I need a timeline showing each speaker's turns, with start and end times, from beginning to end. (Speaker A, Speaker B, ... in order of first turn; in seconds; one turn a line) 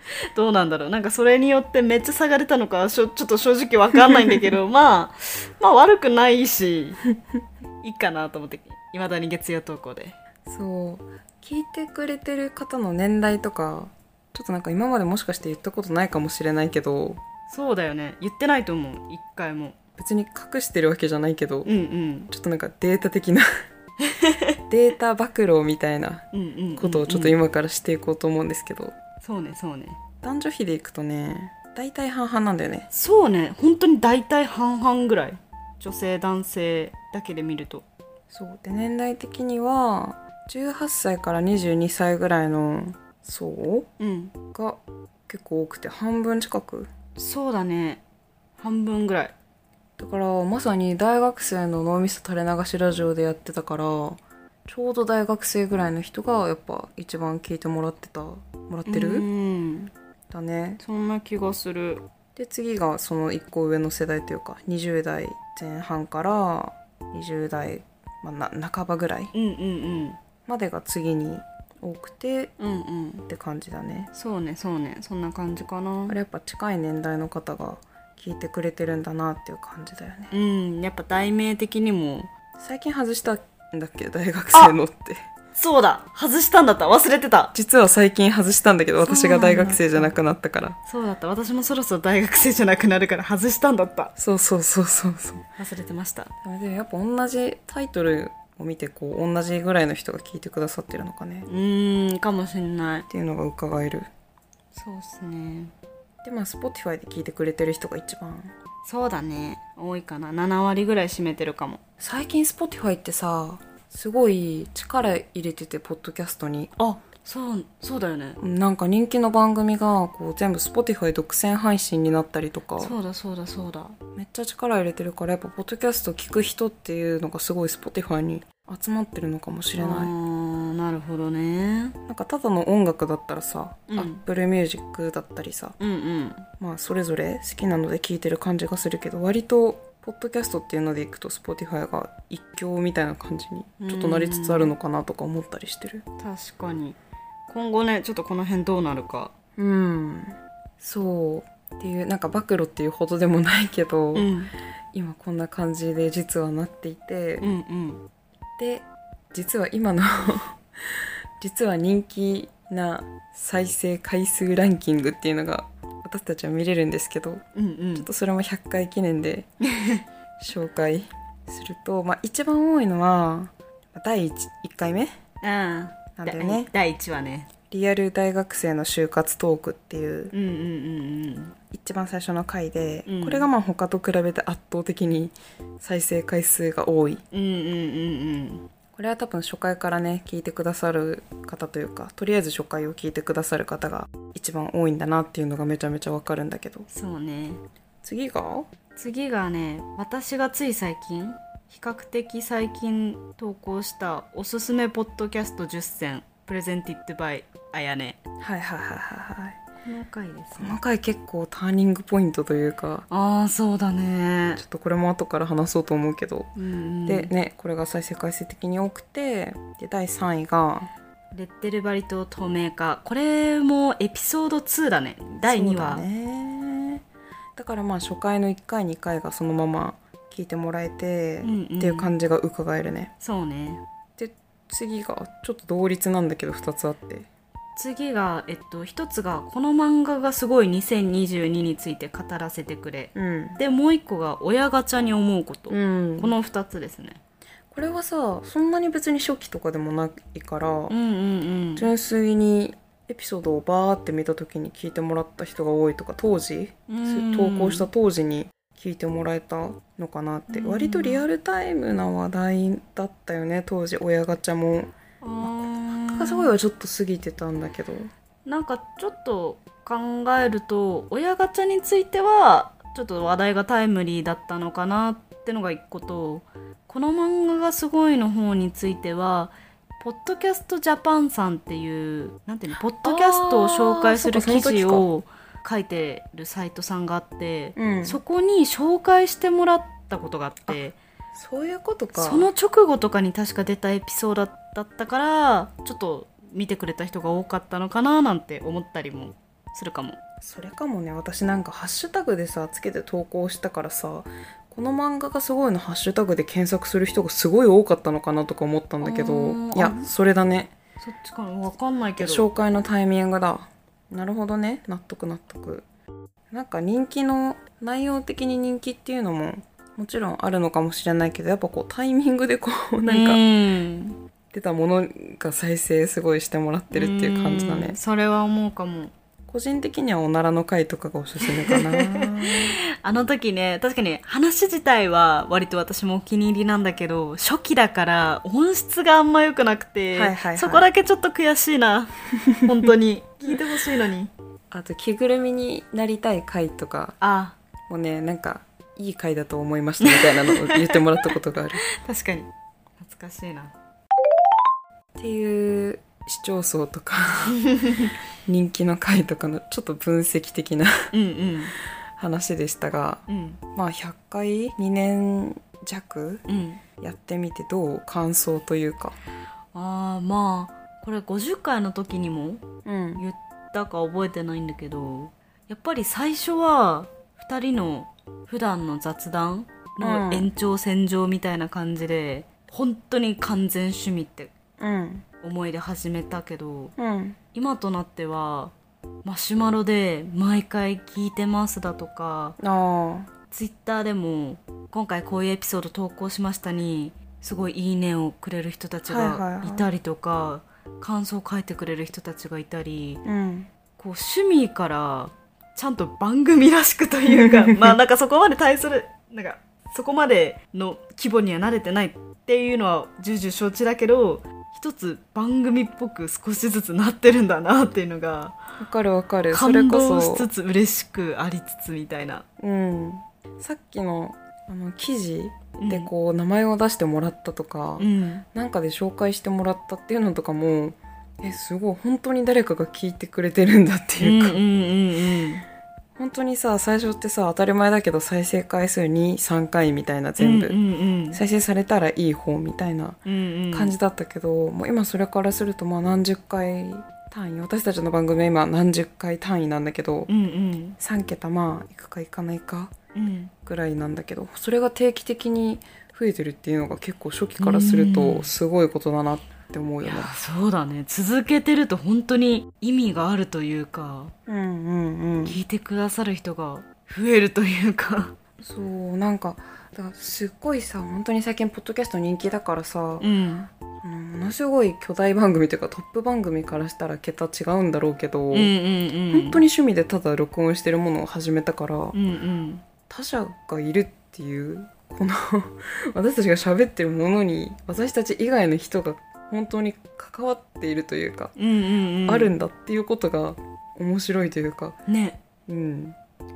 Speaker A: 0.3-7.0
Speaker B: 4.1-4.4
Speaker A: 7.8-10.2
Speaker B: 10.5-17.2
Speaker A: 17.5-19.8
Speaker B: 20.0-21.7
Speaker A: 21.7-22.3
Speaker B: 22.3-23.5
Speaker A: 24.0-24.6
Speaker B: 24.7-26.3
Speaker A: 26.3-27.4
Speaker B: 26.8-29.0
Speaker A: 29.2-30.0
Speaker B: 30.2-32.9
Speaker A: 32.9-37.9
Speaker B: 38.3-43.9
Speaker A: 44.0-44.4
Speaker B: 44.5-46.9
Speaker A: 47.2-48.0
Speaker A: 48.6-49.3
Speaker B: 50.0-59.2
Speaker A: 58.9-59.9
Speaker B: 60.3-60.8
Speaker A: 60.8-62.0
Speaker B: 62.4-69.3
Speaker A: 69.3-70.2
Speaker B: 70.5-72.5
Speaker A: 72.6-73.2
Speaker B: 73.3-74.1
Speaker A: 74.1-76.2
Speaker B: 76.1-80.3
Speaker A: 80.3-82.3
Speaker B: 82.6-85.2
Speaker A: 85.5-87.5
Speaker B: 87.5-90.8
Speaker A: 89.0-90.1
Speaker A: 90.9-94.1
Speaker B: 94.2-95.5
Speaker A: 95.6-96.3
Speaker B: 96.4-101.5
Speaker A: 101.5-103.1
Speaker B: 103.1-104.1
Speaker A: 104.7-105.7
Speaker B: 106.2-108.5
Speaker A: 108.8-111.8
Speaker B: 112.0-116.7
Speaker A: 116.8-118.4
Speaker B: 118.4-122.9
Speaker A: 122.8-124.0
Speaker B: 124.2-130.1
Speaker A: 129.8-132.0
Speaker B: 132.1-135.8
Speaker A: 133.9-134.2
Speaker A: 135.8-136.5
Speaker B: 136.6-146.0
Speaker A: 143.8-144.7
Speaker A: 146.2-147.0
Speaker A: 147.5-149.3
Speaker B: 149.6-154.3
Speaker A: 154.1-154.5
Speaker B: 154.9-157.5
Speaker A: 157.4-158.0
Speaker B: 158.6-167.4
Speaker A: 167.6-168.1
Speaker B: 168.0-169.5
Speaker A: 169.6-170.0
Speaker B: 170.4-175.2
Speaker A: 175.4-177.5
Speaker B: 176.2-176.7
Speaker B: 177.7-180.3
Speaker A: 180.3-181.6
Speaker B: 181.7-187.2
Speaker A: 183.1-183.5
Speaker A: 187.3-188.6
Speaker B: 188.9-196.9
Speaker A: 196.9-197.6
Speaker B: 198.0-198.7
Speaker A: 199.0-208.2
Speaker B: 208.4-209.6
Speaker A: 209.8-210.8
Speaker B: 210.6-213.1
Speaker A: 213.1-214.6
Speaker B: 214.6-216.5
Speaker A: 216.6-217.3
Speaker B: 217.1-220.9
Speaker A: 221.3-226.1
Speaker B: 225.5-227.0
Speaker B: 227.6-233.1
Speaker A: 231.4-232.1
Speaker A: 233.2-233.8
Speaker B: 234.2-237.3
Speaker A: 237.8-247.2
Speaker B: 243.2-243.6
Speaker B: 245.7-246.4
Speaker B: 247.7-250.9
Speaker A: 250.9-251.9
Speaker B: 251.8-268.1
Speaker A: 256.9-257.9
Speaker A: 260.5-261.2
Speaker A: 265.2-266.5
Speaker A: 268.4-291.0
Speaker B: 283.0-285.1
Speaker B: 287.8-288.2
Speaker B: 291.3-292.5
Speaker A: 292.1-300.2
Speaker B: 300.4-310.7
Speaker A: 309.0-310.1
Speaker A: 311.0-312.5
Speaker B: 312.2-315.9
Speaker B: 316.5-323.4
Speaker A: 323.1-324.2
Speaker B: 324.5-328.0
Speaker A: 326.9-329.1
Speaker B: 329.5-332.8
Speaker A: 331.7-344.3
Speaker B: 340.1-340.9
Speaker B: 344.7-347.2
Speaker A: 347.2-347.6
Speaker B: 347.9-351.9
Speaker A: 350.0-351.0
Speaker A: 351.9-353.7
Speaker B: 355.2-357.6
Speaker A: 357.6-358.1
Speaker B: 358.5-361.1
Speaker A: 361.1-361.7
Speaker B: 362.2-366.4
Speaker A: 363.3-363.6
Speaker A: 366.5-366.8
Speaker B: 367.0-369.2
Speaker A: 369.7-372.7
Speaker B: 372.9-373.2
Speaker A: 373.2-384.5
Speaker B: 380.0-380.5
Speaker B: 384.8-385.3
Speaker A: 385.4-386.9
Speaker B: 387.0-387.4
Speaker A: 387.5-392.6
Speaker B: 392.6-393.3
Speaker A: 393.5-403.2
Speaker B: 399.1-399.9
Speaker B: 403.2-403.7
Speaker A: 404.0-418.6
Speaker B: 407.3-408.0
Speaker B: 418.8-420.5
Speaker A: 419.5-422.4
Speaker B: 422.6-434.6
Speaker A: 425.8-426.1
Speaker A: 428.0-428.4
Speaker A: 434.2-435.6
Speaker B: 436.2-440.8
Speaker A: 440.4-441.4
Speaker B: 441.3-450.3
Speaker A: 443.3-443.9
Speaker A: 450.3-451.0
Speaker B: 451.0-452.9
Speaker A: 453.1-453.5
Speaker B: 453.6-460.3
Speaker A: 457.6-458.5
Speaker A: 460.0-464.3
Speaker B: 464.5-465.6
Speaker A: 465.4-468.4
Speaker B: 468.6-473.3
Speaker A: 473.2-473.7
Speaker B: 474.0-478.7
Speaker A: 478.5-479.6
Speaker B: 479.3-482.1
Speaker A: 482.1-482.8
Speaker B: 483.1-491.6
Speaker A: 491.6-492.5
Speaker B: 492.3-495.0
Speaker A: 495.1-495.4
Speaker B: 495.7-496.2